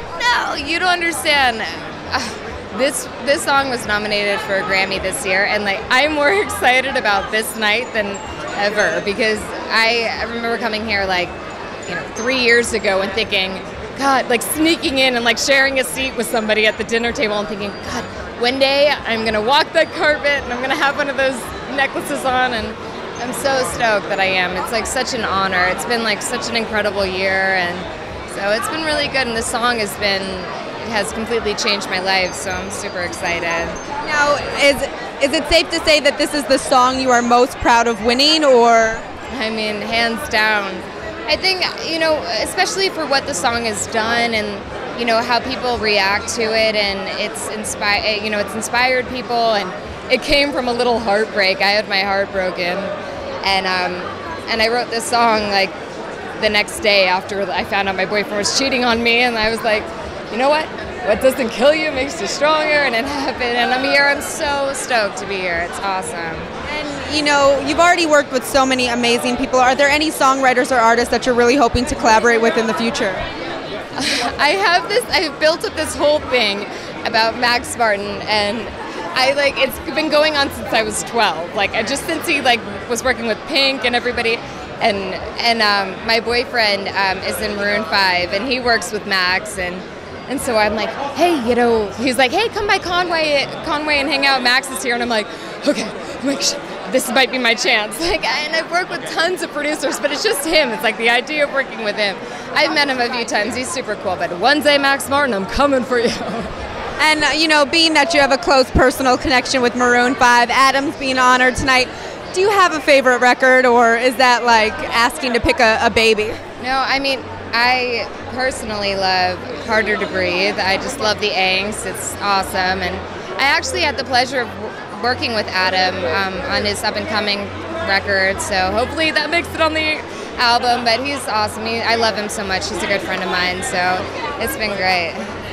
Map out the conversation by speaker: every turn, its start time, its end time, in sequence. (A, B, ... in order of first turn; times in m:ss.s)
0:00.2-0:11.3 A
0:11.9-0:33.8 A
0:34.0-0:39.0 B
0:39.3-0:55.8 A
0:56.4-1:06.5 A
1:06.7-1:13.2 B
1:14.0-1:46.5 A
1:47.0-1:56.4 B
1:56.6-2:15.2 A